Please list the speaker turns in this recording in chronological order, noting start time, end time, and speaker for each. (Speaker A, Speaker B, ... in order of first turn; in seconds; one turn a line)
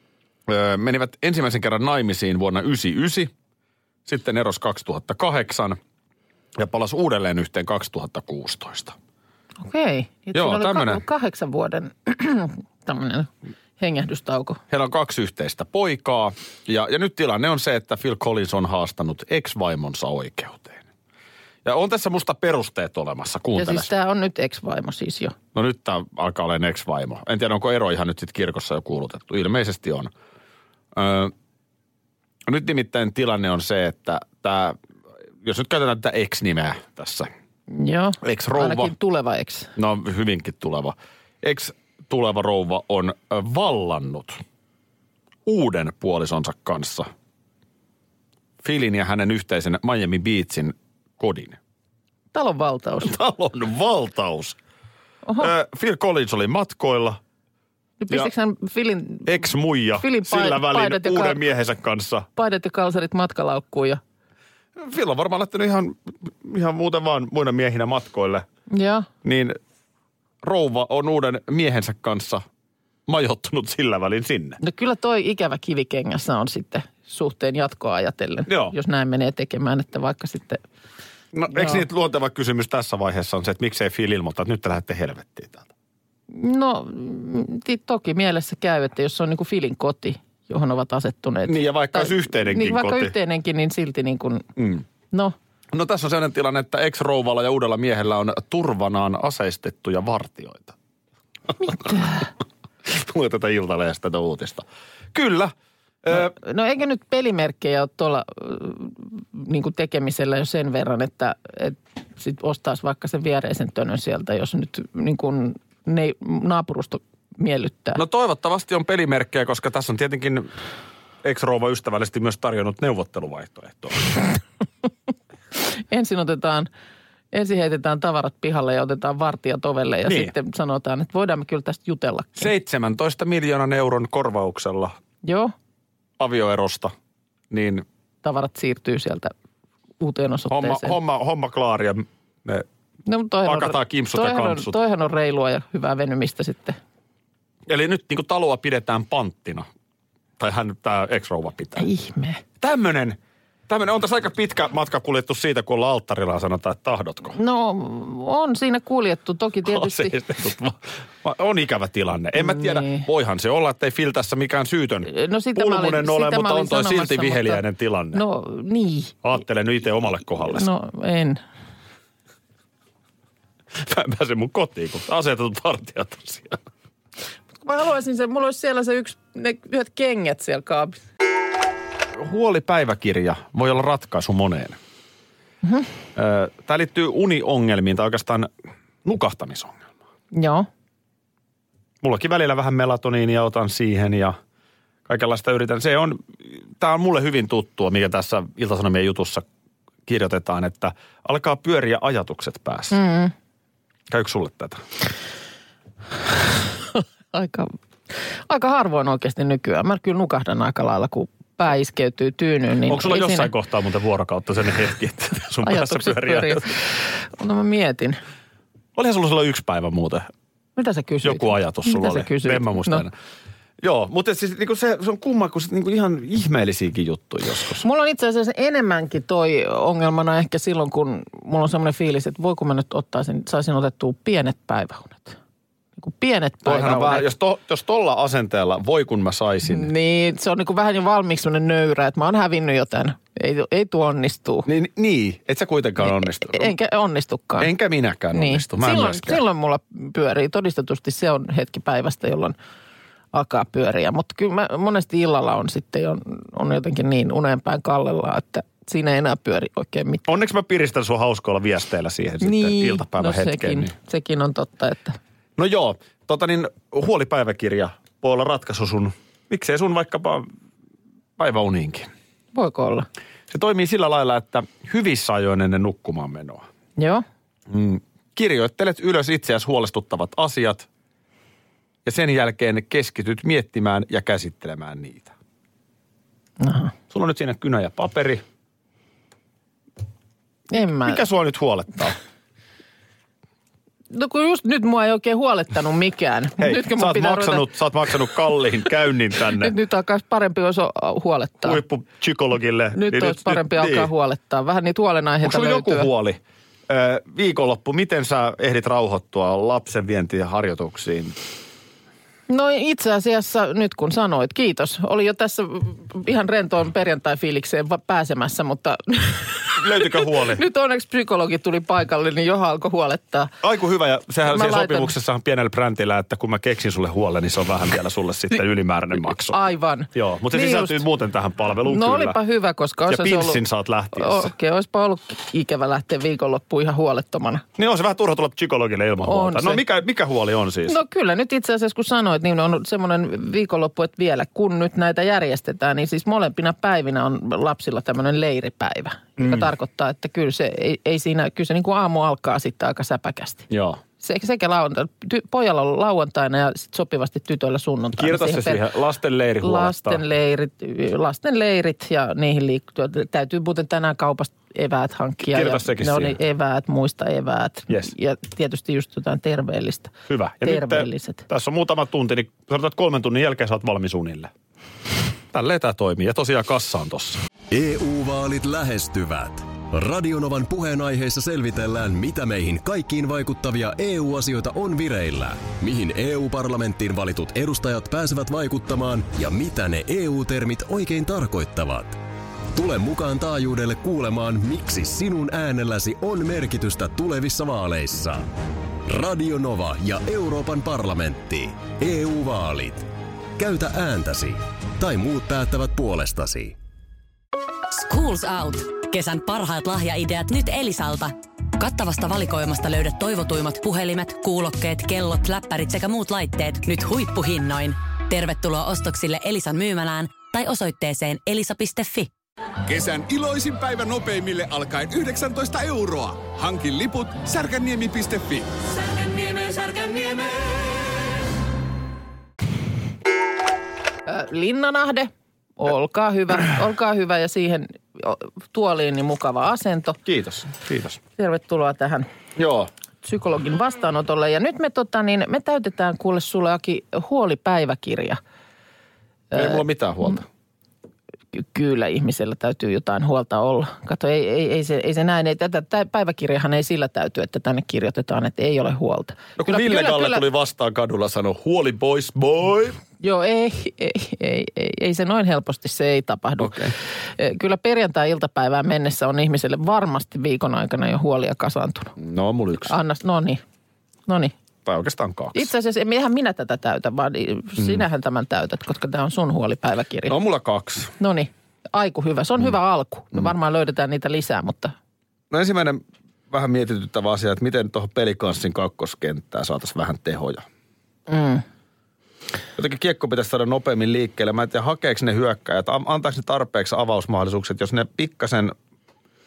Speaker A: 0.5-3.3
Speaker A: 4.1-5.8
Speaker A: 6.5-8.9
Speaker B: 9.6-14.6
Speaker A: 10.3-11.0
Speaker A: 14.7-20.9
Speaker A: 21.6-23.9
Speaker B: 23.6-25.4
Speaker A: 25.5-30.1
Speaker A: 30.9-31.3
Speaker A: 32.5-34.8
Speaker A: 35.4-37.3
Speaker B: 37.7-39.7
Speaker A: 38.2-38.9
Speaker A: 39.8-44.4
Speaker A: 45.5-47.1
Speaker A: 48.6-51.6
Speaker B: 52.3-53.2
Speaker A: 53.0-54.6
Speaker B: 55.2-55.5
Speaker A: 55.4-57.2
Speaker B: 58.0-59.4
Speaker A: 59.2-62.3
Speaker B: 60.0-61.4
Speaker B: 62.4-64.0
Speaker A: 64.8-68.5
Speaker B: 68.7-69.1
Speaker A: 69.2-69.6
Speaker A: 70.4-72.5
Speaker A: 73.1-74.6
Speaker B: 74.6-80.6
Speaker A: 78.5-78.7
Speaker A: 81.3-85.7
Speaker B: 81.5-81.8
Speaker B: 86.3-94.5
Speaker A: 91.5-93.1
Speaker A: 94.6-94.8
Speaker A: 95.7-100.8
Speaker A: 101.6-102.3
Speaker B: 101.8-102.3
Speaker A: 102.8-105.5
Speaker A: 106.0-106.3
Speaker B: 106.1-118.0
Speaker A: 118.0-120.5
Speaker A: 121.2-124.2
Speaker B: 125.7-126.7
Speaker B: 127.3-132.5
Speaker A: 130.1-130.3
Speaker A: 132.4-135.0
Speaker B: 135.2-135.5
Speaker A: 136.2-136.9
Speaker A: 137.5-137.8
Speaker B: 138.2-139.3
Speaker B: 140.0-141.0
Speaker A: 140.5-142.7
Speaker B: 143.1-146.8
Speaker A: 143.4-144.8
Speaker A: 147.7-149.7
Speaker A: 150.4-151.9
Speaker B: 151.8-152.4
Speaker A: 152.6-157.4
Speaker B: 157.4-160.2
Speaker A: 159.6-168.2
Speaker B: 162.4-163.1
Speaker B: 165.1-169.2
Speaker A: 169.2-170.7
Speaker B: 170.5-171.4
Speaker A: 173.7-176.6
Speaker B: 177.6-181.0
Speaker A: 182.2-184.8
Speaker B: 185.6-185.9
Speaker A: 186.2-188.5
Speaker A: 189.0-189.9
Speaker B: 190.3-190.7
Speaker A: 192.0-194.4
Speaker A: 195.1-199.4
Speaker A: 200.1-203.0
Speaker B: 202.9-203.3
Speaker A: 204.1-204.8
Speaker B: 206.9-213.5
Speaker A: 212.9-216.7
Speaker B: 215.6-218.2
Speaker A: 219.0-220.3
Speaker B: 220.8-223.1
Speaker A: 221.2-223.2
Speaker A: 223.8-227.8
Speaker B: 227.8-235.4
Speaker B: 236.0-237.3
Speaker A: 236.6-239.9
Speaker B: 239.7-244.7
Speaker A: 244.7-246.7
Speaker B: 246.0-247.7
Speaker A: 247.6-249.4
Speaker B: 248.3-252.6
Speaker B: 253.3-260.3
Speaker A: 260.3-263.9
Speaker B: 262.4-265.2
Speaker A: 265.6-270.5
Speaker A: 271.4-272.1
Speaker B: 272.5-273.1
Speaker A: 273.5-276.6
Speaker B: 277.0-277.2
Speaker A: 277.7-280.9
Speaker A: 282.1-285.3
Speaker B: 286.6-286.9
Speaker A: 287.1-288.4
Speaker B: 290.7-291.2
Speaker A: 291.0-292.2
Speaker B: 294.1-297.7
Speaker A: 296.6-299.7
Speaker B: 299.6-301.8
Speaker A: 301.6-304.1
Speaker B: 302.9-306.1
Speaker A: 305.4-311.4
Speaker B: 312.5-323.6
Speaker A: 319.8-320.6
Speaker A: 323.6-329.6
Speaker B: 324.5-325.1
Speaker B: 329.5-331.0
Speaker A: 330.1-332.4
Speaker B: 331.9-333.6
Speaker A: 333.1-334.5
Speaker B: 334.1-337.6
Speaker A: 337.8-341.0
Speaker B: 339.2-339.8
Speaker B: 340.9-353.7
Speaker A: 349.4-349.7
Speaker A: 353.7-354.0
Speaker B: 354.2-358.9
Speaker A: 358.2-360.2
Speaker B: 359.6-371.4
Speaker A: 365.4-366.4
Speaker A: 370.3-374.5
Speaker A: 375.5-377.4
Speaker C: 377.7-392.2
Speaker C: 392.7-398.5
Speaker C: 399.1-403.1
Speaker C: 403.6-406.8
Speaker D: 407.9-422.3
Speaker E: 422.9-430.8
Speaker B: 434.3-440.2
Speaker A: 440.2-441.2
Speaker B: 441.4-442.3
Speaker A: 442.6-442.9
Speaker B: 443.2-448.4
Speaker B: 449.5-450.4
Speaker A: 449.5-450.4
Speaker B: 451.5-460.5
Speaker A: 459.6-463.0
Speaker B: 463.2-472.2
Speaker A: 466.6-466.9
Speaker A: 472.2-473.0
Speaker B: 472.9-473.6
Speaker B: 474.3-474.5
Speaker A: 474.9-475.7
Speaker B: 475.5-480.4
Speaker A: 480.3-481.1
Speaker B: 481.2-484.9
Speaker A: 485.5-490.6
Speaker B: 491.3-491.6
Speaker A: 492.8-498.8